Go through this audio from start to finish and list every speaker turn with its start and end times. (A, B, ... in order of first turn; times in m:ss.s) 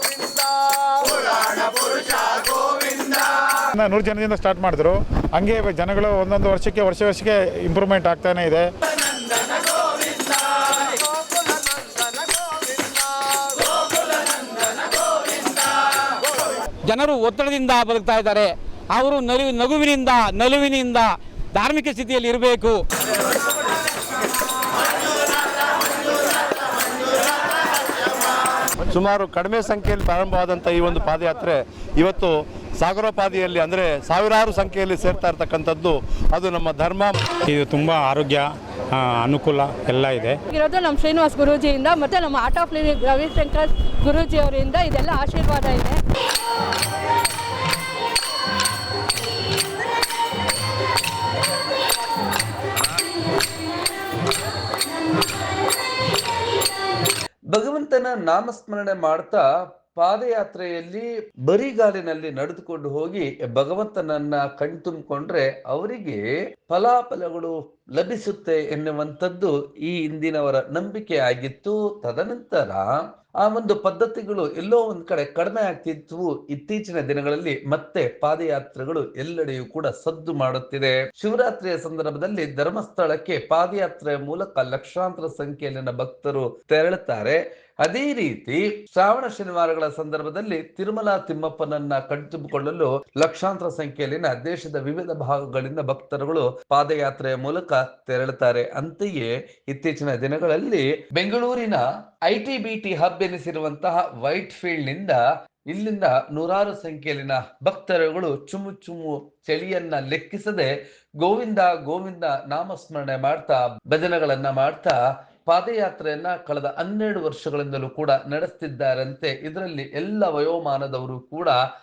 0:03.7-0:08.7 A
0:16.8-0:22.8 B
0:28.9-0:37.2 C
0:37.4-0:40.4 D
0:40.5-0:46.0 E
0:57.5-0:59.4 F
1:00.0-1:12.8 F
1:13.4-1:45.2 F
1:45.7-1:50.7 F
1:51.2-1:54.9 F
1:55.5-2:01.6 F